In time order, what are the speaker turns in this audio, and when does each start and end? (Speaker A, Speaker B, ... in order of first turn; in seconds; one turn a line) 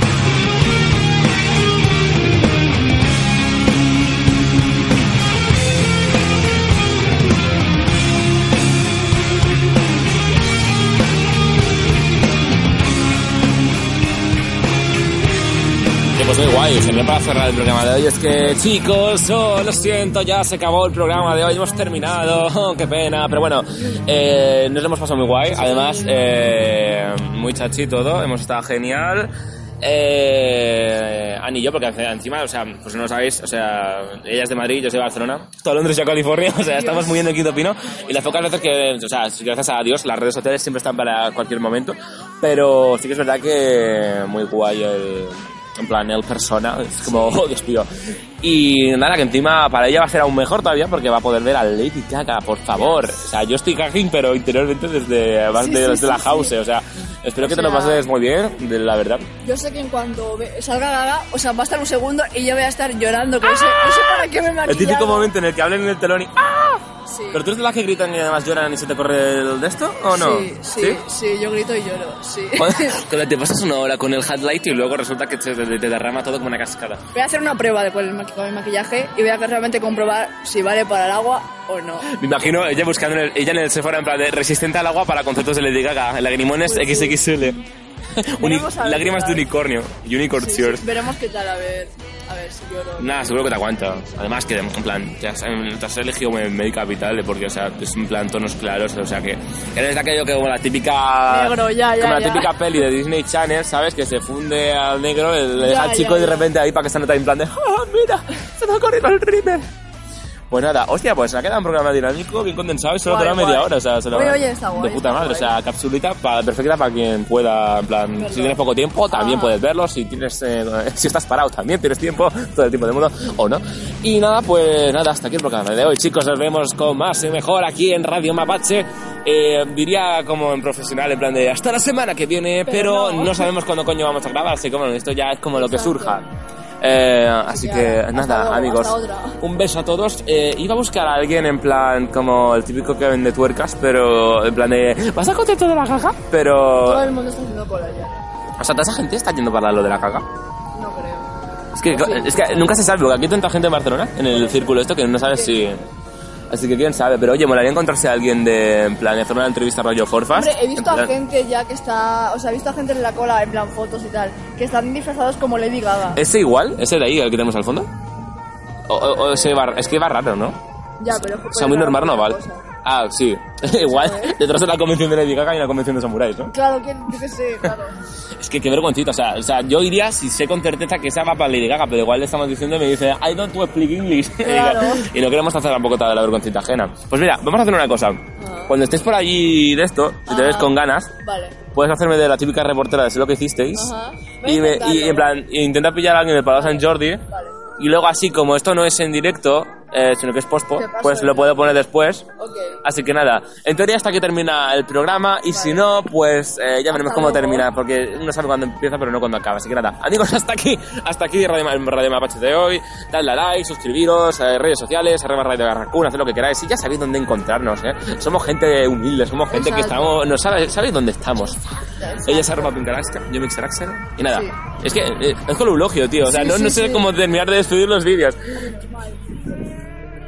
Speaker A: 16.1-29.3
Speaker B: 25.7-26.0
Speaker A: 29.8-47.9
Speaker B: 36.7-37.3
Speaker B: 47.1-47.4
Speaker A: 48.4-59.2
Speaker B: 55.6-56.5
Speaker B: 57.4-58.0
Speaker B: 59.4-65.3
Speaker A: 63.5-71.0
Speaker B: 67.1-67.4
Speaker B: 70.1-73.0
Speaker A: 72.6-77.0
Speaker B: 77.1-82.0
Speaker A: 82.1-87.6
Speaker B: 86.7-87.2
Speaker A: 88.2-90.8
Speaker B: 88.4-89.5
Speaker B: 90.4-93.4
Speaker A: 93.0-109.7
Speaker B: 101.3-102.5
Speaker B: 105.6-106.5
Speaker A: 110.5-136.3
Speaker B: 113.0-115.6
Speaker B: 118.2-119.6
Speaker B: 132.7-133.5
Speaker B: 135.5-136.2
Speaker A: 136.8-147.1
Speaker B: 137.5-139.4
Speaker B: 146.8-148.2
Speaker A: 148.6-150.3
Speaker B: 150.7-151.3
Speaker A: 151.8-155.8
Speaker B: 151.9-152.9
Speaker B: 154.3-154.7
Speaker B: 155.3-155.6
Speaker A: 156.5-161.1
Speaker B: 160.3-166.2
Speaker A: 166.2-167.9
Speaker A: 168.9-170.6
Speaker B: 171.0-172.6
Speaker A: 171.1-176.5
Speaker B: 173.6-174.4
Speaker B: 176.5-178.0
Speaker A: 178.4-191.1
Speaker B: 184.4-185.0
Speaker B: 188.4-188.8
Speaker B: 190.3-191.6
Speaker A: 191.7-193.9
Speaker B: 193.7-195.4
Speaker A: 194.4-197.2
Speaker B: 196.6-197.6
Speaker A: 197.8-202.3
Speaker B: 200.8-201.8
Speaker B: 202.4-202.8
Speaker A: 202.8-221.6
Speaker B: 205.5-206.1
Speaker B: 206.9-207.7
Speaker B: 219.5-220.3
Speaker B: 222.0-222.7
Speaker A: 222.3-228.4
Speaker B: 224.3-224.5
Speaker B: 226.3-227.1
Speaker B: 228.7-229.4